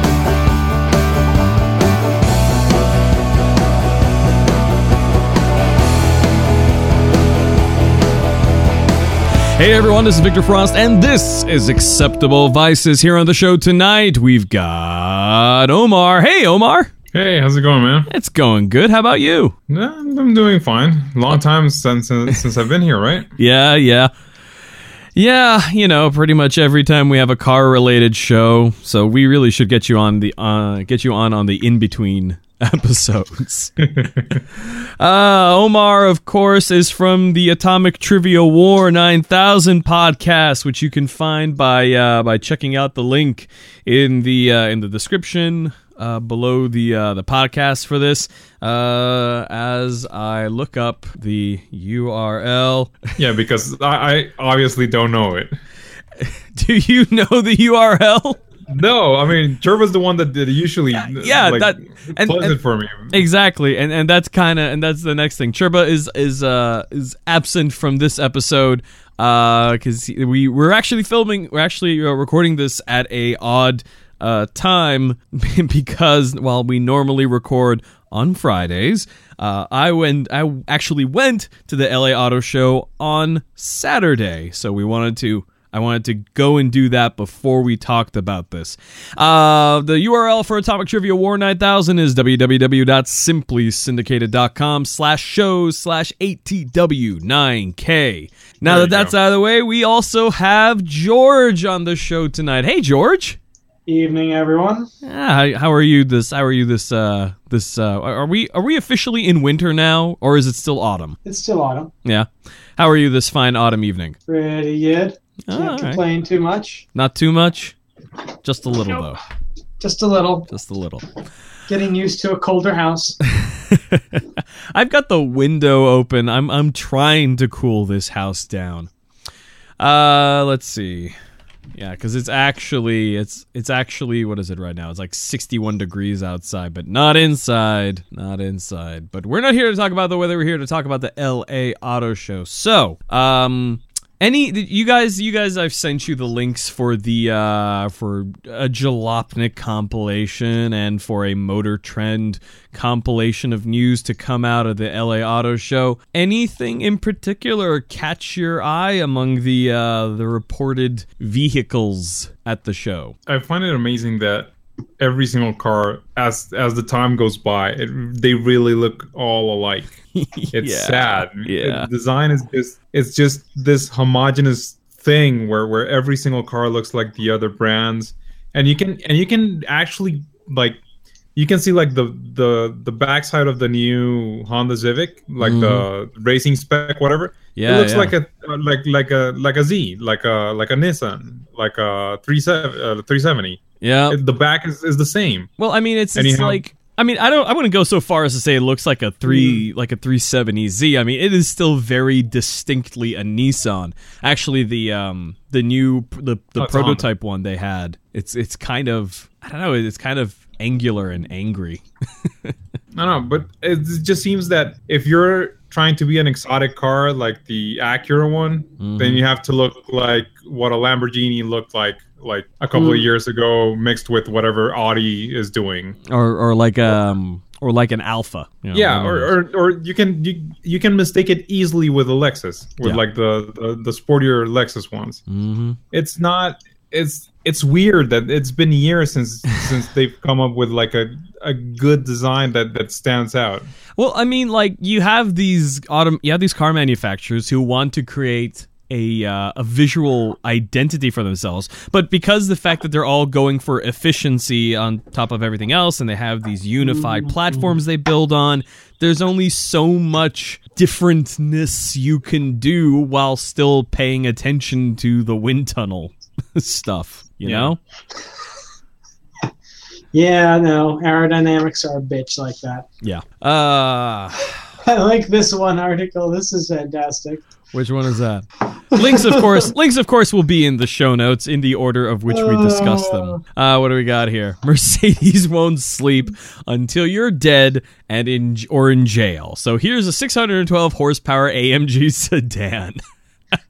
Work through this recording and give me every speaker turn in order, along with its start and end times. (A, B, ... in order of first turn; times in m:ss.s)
0:09.5-0:16.9 A
0:17.1-0:18.1 B
0:18.1-0:19.5 A
0:19.7-0:23.3 B
0:23.4-0:24.1 A
0:25.2-0:33.8 A
0:33.8-0:34.4 B
0:34.6-0:53.0 A
0:53.2-0:55.5 B
0:56.2-0:58.4 A
0:58.7-1:03.2 B
1:00.9-1:02.6 A
1:03.1-1:43.4 A
1:38.6-1:39.1 B
1:43.9-1:44.9 C
1:45.0-1:51.2 A
1:51.2-1:51.9 C
1:52.0-1:54.2 A
1:54.3-1:56.8 C
1:55.5-1:56.0 A
1:57.0-1:57.8 A
1:58.4-1:59.2 A
1:59.8-2:00.5 C
2:00.5-2:01.0 A
2:01.7-2:03.2 C
2:03.3-2:08.9 A
2:09.8-2:11.1 A
2:11.7-2:43.2 A
2:43.2-2:50.0 B
2:50.2-2:51.9 A
2:50.5-3:00.8 B
3:01.4-3:15.5 B
3:05.4-3:05.8 A
3:07.5-3:08.1 A
3:13.8-3:14.2 A
3:15.6-3:31.8 A
3:16.1-3:16.6 B
3:26.6-3:27.0 B
3:32.9-3:46.0 B
3:38.8-3:39.2 A
3:42.7-3:43.0 C
3:46.1-3:49.3 A
3:48.7-3:55.2 B
3:55.3-3:55.8 A
3:55.9-4:03.6 B
4:04.0-4:27.8 A
4:16.8-4:17.7 C
4:27.4-4:27.7 B
4:30.1-4:32.9 C
4:33.0-4:34.5 A
4:34.8-4:37.4 C
4:37.7-4:53.0 A
4:38.9-4:39.7 C
4:42.3-4:43.4 C